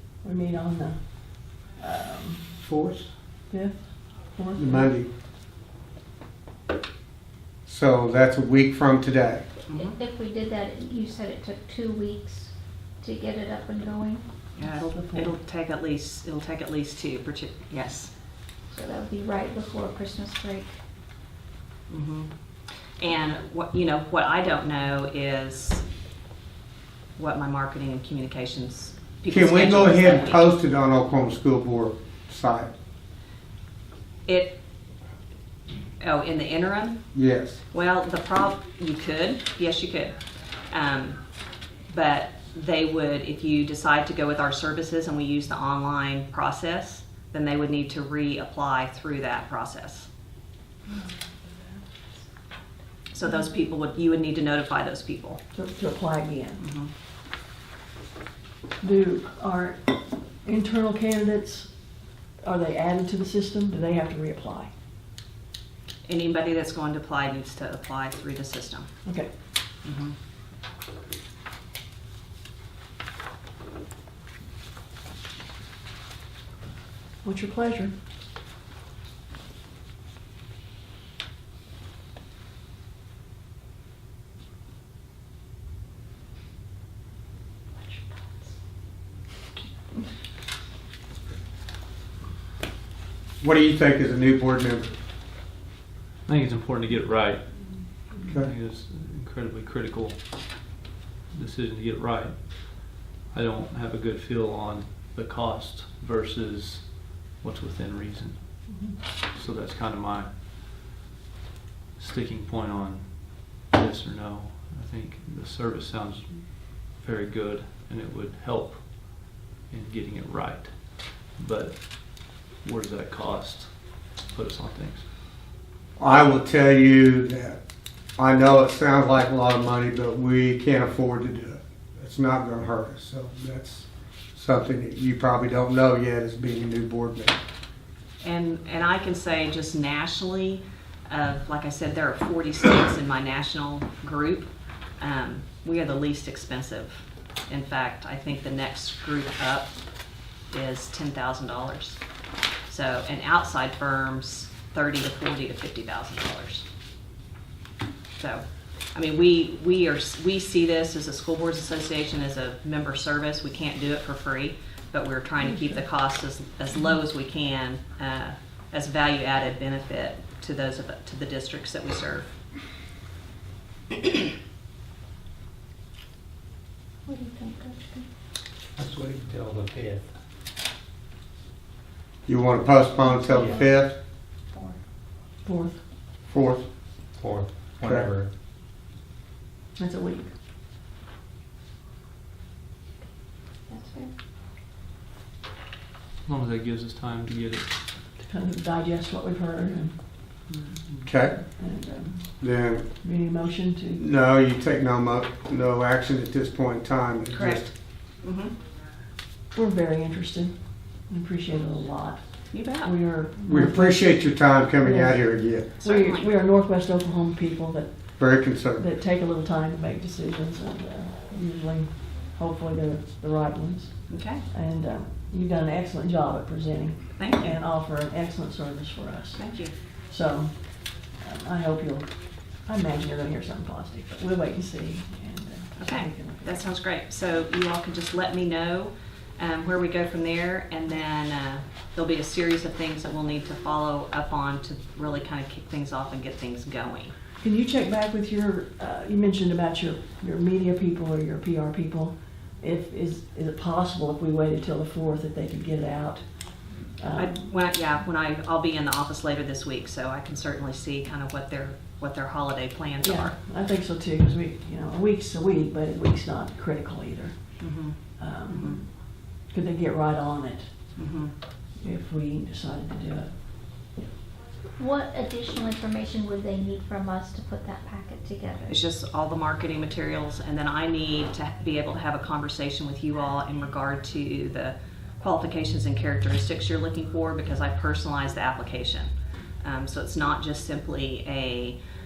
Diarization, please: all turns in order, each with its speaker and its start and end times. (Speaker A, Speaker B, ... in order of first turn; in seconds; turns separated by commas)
Speaker A: 0.2-2.6, Speaker B: 2.6-3.1, Speaker A: 3.5-4.9, Speaker B: 4.6-5.1, Speaker B: 7.7-9.5, Speaker C: 9.7-9.9, Speaker D: 9.7-14.2, Speaker C: 14.6-18.1, Speaker A: 14.7-15.3, Speaker D: 18.7-20.8, Speaker C: 21.9-22.3, Speaker C: 23.0-25.9, Speaker C: 27.2-30.5, Speaker B: 29.3-32.7, Speaker C: 34.3-34.6, Speaker C: 36.0-37.0, Speaker B: 37.1-37.6, Speaker C: 37.7-40.1, Speaker C: 40.7-41.2, Speaker C: 41.9-50.1, Speaker C: 53.1-55.4, Speaker A: 55.5-56.6, Speaker C: 56.6-56.9, Speaker A: 58.8-61.7, Speaker A: 62.4-64.7, Speaker C: 66.1-68.9, Speaker A: 69.0-69.3, Speaker C: 69.8-70.1, Speaker A: 77.2-77.9, Speaker D: 87.9-88.5, Speaker B: 93.4-94.9, Speaker E: 96.3-100.7, Speaker E: 101.3-108.7, Speaker E: 109.2-110.9, Speaker E: 112.0-125.1, Speaker B: 126.0-127.6, Speaker B: 128.2-137.4, Speaker C: 138.2-149.7, Speaker C: 150.5-152.0, Speaker C: 152.7-156.7, Speaker C: 158.2-172.3, Speaker D: 177.1-178.1, Speaker F: 178.8-180.1, Speaker B: 182.3-184.0, Speaker D: 183.3-183.6, Speaker D: 184.5-184.8, Speaker A: 185.4-185.8, Speaker B: 186.3-186.7, Speaker F: 187.2-188.3, Speaker A: 189.8-190.3, Speaker D: 193.7-194.1, Speaker E: 196.2-197.7, Speaker A: 198.2-200.0, Speaker E: 200.5-201.0, Speaker B: 201.1-201.5, Speaker A: 201.5-202.4, Speaker B: 202.4-202.9, Speaker A: 203.0-204.1, Speaker B: 204.0-207.7, Speaker C: 207.3-208.5, Speaker A: 209.5-229.5, Speaker C: 212.5-212.9, Speaker B: 213.4-215.7, Speaker C: 215.8-216.3, Speaker B: 218.2-218.8, Speaker C: 224.1-224.4, Speaker C: 227.2-227.6, Speaker C: 229.3-229.7, Speaker A: 230.0-232.1, Speaker A: 232.6-236.7, Speaker C: 235.8-247.2, Speaker A: 247.4-257.5, Speaker C: 257.1-263.4, Speaker A: 263.0-268.9, Speaker C: 267.6-268.8, Speaker A: 269.5-270.7, Speaker C: 271.0-271.3, Speaker A: 271.8-273.3, Speaker D: 274.8-278.8, Speaker C: 278.7-291.8